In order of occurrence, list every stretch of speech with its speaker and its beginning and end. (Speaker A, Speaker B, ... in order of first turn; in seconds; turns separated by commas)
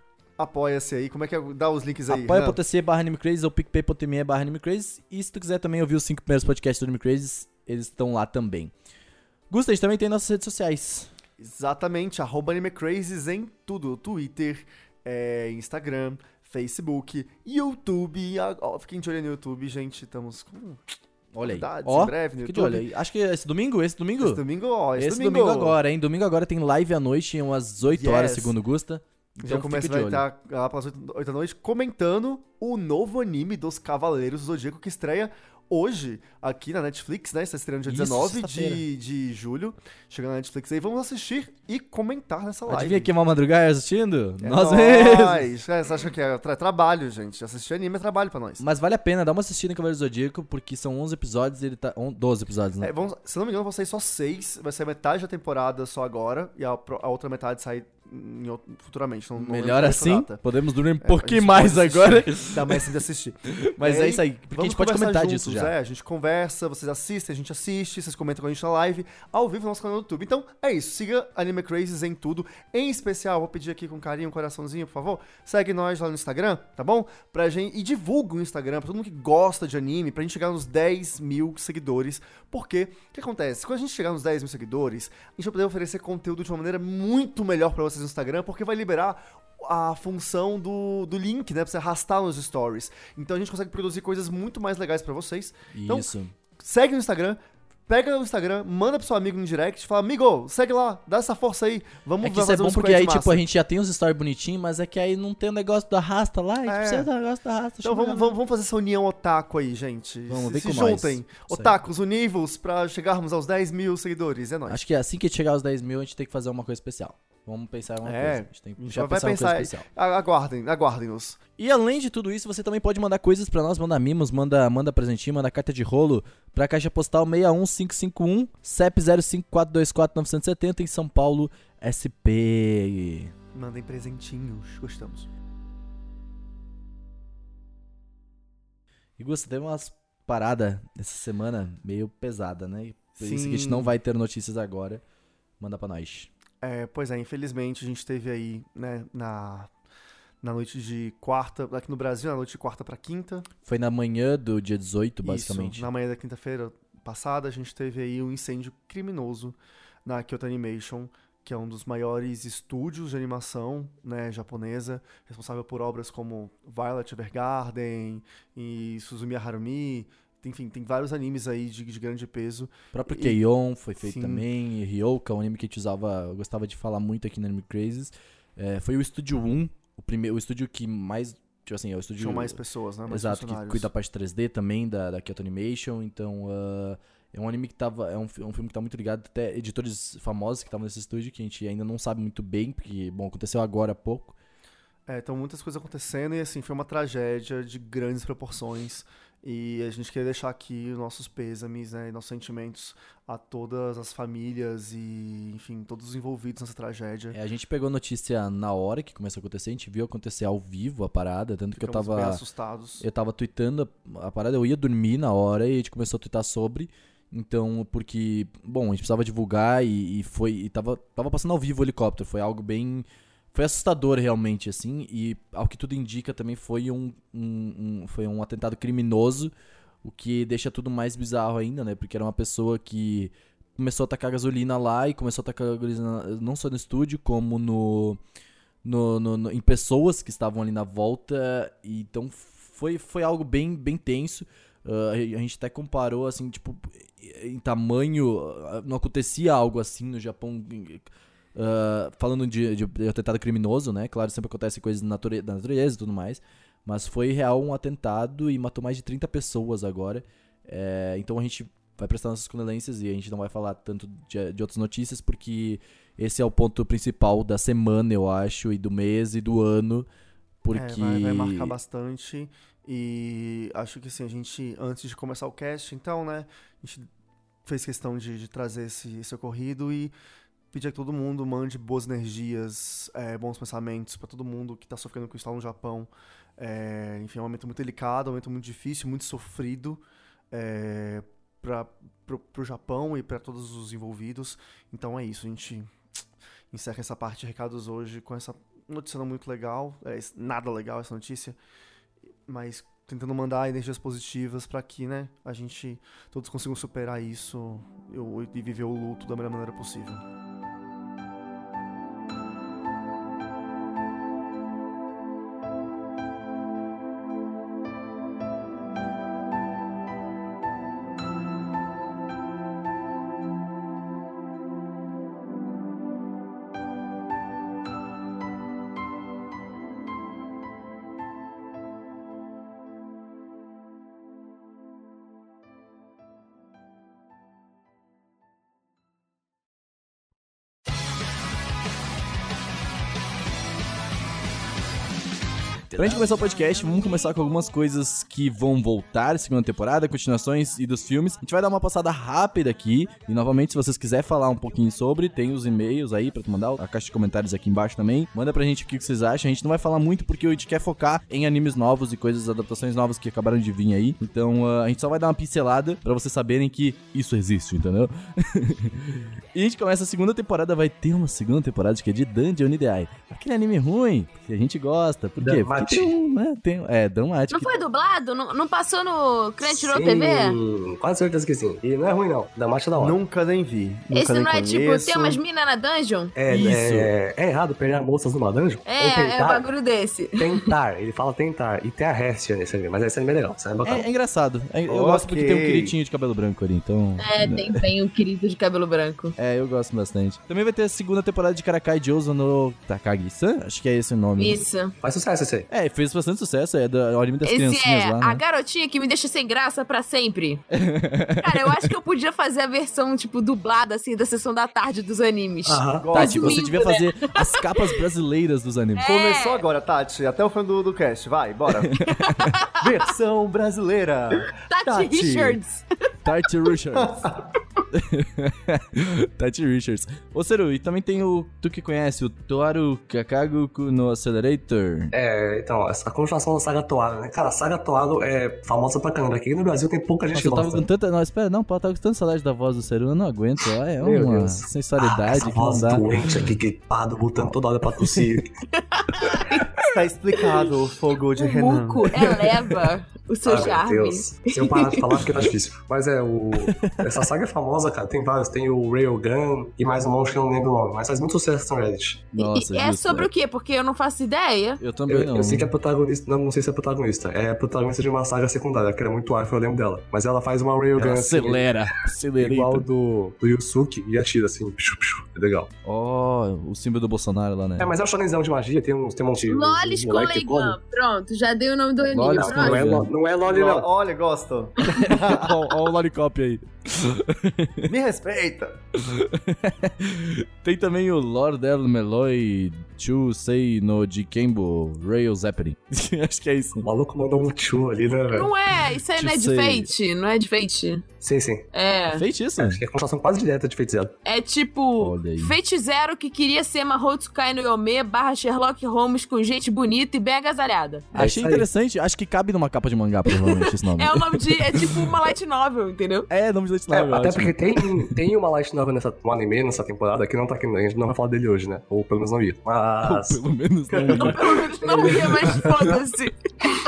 Speaker A: 0.4-2.6, Speaker B: 2.1-8.7, Speaker B: 9.5-11.1, Speaker A: 11.4-22.9, Speaker B: 21.3-24.4, Speaker A: 24.2-25.8, Speaker B: 24.9-30.2, Speaker A: 27.9-28.6, Speaker A: 29.4-43.1, Speaker B: 37.9-38.8, Speaker B: 42.7-45.4, Speaker A: 44.4-48.6, Speaker B: 48.6-52.9, Speaker A: 52.8-60.4, Speaker B: 59.3-62.8, Speaker A: 61.0-103.4, Speaker B: 63.6-65.7, Speaker B: 95.7-96.3, Speaker B: 102.2-108.3, Speaker A: 106.7-107.1, Speaker A: 107.8-114.8, Speaker B: 110.3-111.8, Speaker B: 114.7-119.8, Speaker A: 118.0-121.4, Speaker B: 121.6-133.3, Speaker A: 133.5-135.3, Speaker B: 139.2-145.0, Speaker A: 143.2-143.9, Speaker B: 145.6-146.3, Speaker A: 146.6-149.7, Speaker A: 150.4-153.5, Speaker B: 153.7-155.9, Speaker A: 155.2-173.4, Speaker B: 172.9-194.3, Speaker A: 174.0-174.4, Speaker A: 182.2-183.9, Speaker A: 195.1-207.4, Speaker B: 207.3-212.4, Speaker A: 211.8-213.1, Speaker B: 213.0-229.5, Speaker B: 230.0-238.2, Speaker B: 238.8-270.1, Speaker B: 270.6-271.8, Speaker A: 270.7-277.1, Speaker A: 277.7-280.1, Speaker A: 280.7-295.9, Speaker A: 296.7-301.6, Speaker A: 302.5-310.2, Speaker B: 345.9-377.8, Speaker C: 375.4-376.1, Speaker D: 377.5-380.6, Speaker C: 379.6-383.2, Speaker A: 382.9-385.4, Speaker D: 384.1-386.3, Speaker C: 386.3-389.6, Speaker B: 386.5-387.1, Speaker D: 388.9-390.7, Speaker C: 390.4-394.1, Speaker B: 393.8-397.9, Speaker A: 394.9-395.9, Speaker D: 397.2-399.4, Speaker B: 399.4-404.6, Speaker D: 404.4-404.9, Speaker C: 405.0-405.7, Speaker B: 405.7-408.4, Speaker D: 407.4-410.6, Speaker B: 410.7-411.9, Speaker D: 411.4-417.7, Speaker C: 415.7-416.1, Speaker A: 416.0-416.7, Speaker B: 416.1-419.1, Speaker D: 418.9-419.6, Speaker A: 419.0-422.1, Speaker B: 421.9-422.6, Speaker D: 422.1-422.9, Speaker A: 422.8-425.6, Speaker D: 424.6-425.8, Speaker B: 426.2-427.2, Speaker A: 426.9-427.4, Speaker B: 427.9-435.1, Speaker C: 435.1-440.9, Speaker B: 440.3-446.5, Speaker C: 444.0-448.5, Speaker B: 447.4-448.2, Speaker D: 448.8-450.7, Speaker A: 449.9-452.1, Speaker D: 451.4-455.2, Speaker B: 452.2-452.8, Speaker C: 453.4-462.3, Speaker B: 456.6-457.0, Speaker B: 462.3-463.3, Speaker D: 462.3-464.8, Speaker B: 464.8-465.7, Speaker C: 465.1-471.7, Speaker B: 471.0-472.9, Speaker C: 472.4-475.7, Speaker B: 475.8-477.9, Speaker C: 477.8-480.8, Speaker D: 479.5-482.9, Speaker B: 482.1-483.1, Speaker C: 482.3-483.9, Speaker A: 483.4-485.6, Speaker B: 484.9-487.9, Speaker A: 487.9-488.8, Speaker B: 488.9-496.9, Speaker C: 496.8-498.5, Speaker D: 498.3-501.0, Speaker B: 499.1-499.9, Speaker C: 501.2-501.6, Speaker D: 501.7-502.2, Speaker B: 502.1-502.8, Speaker C: 502.6-504.1, Speaker D: 504.2-511.1, Speaker B: 505.0-505.6, Speaker B: 511.1-515.1, Speaker C: 511.1-511.7, Speaker D: 513.3-516.3, Speaker B: 516.3-518.1, Speaker C: 516.9-525.9, Speaker B: 523.0-525.9, Speaker D: 524.1-526.7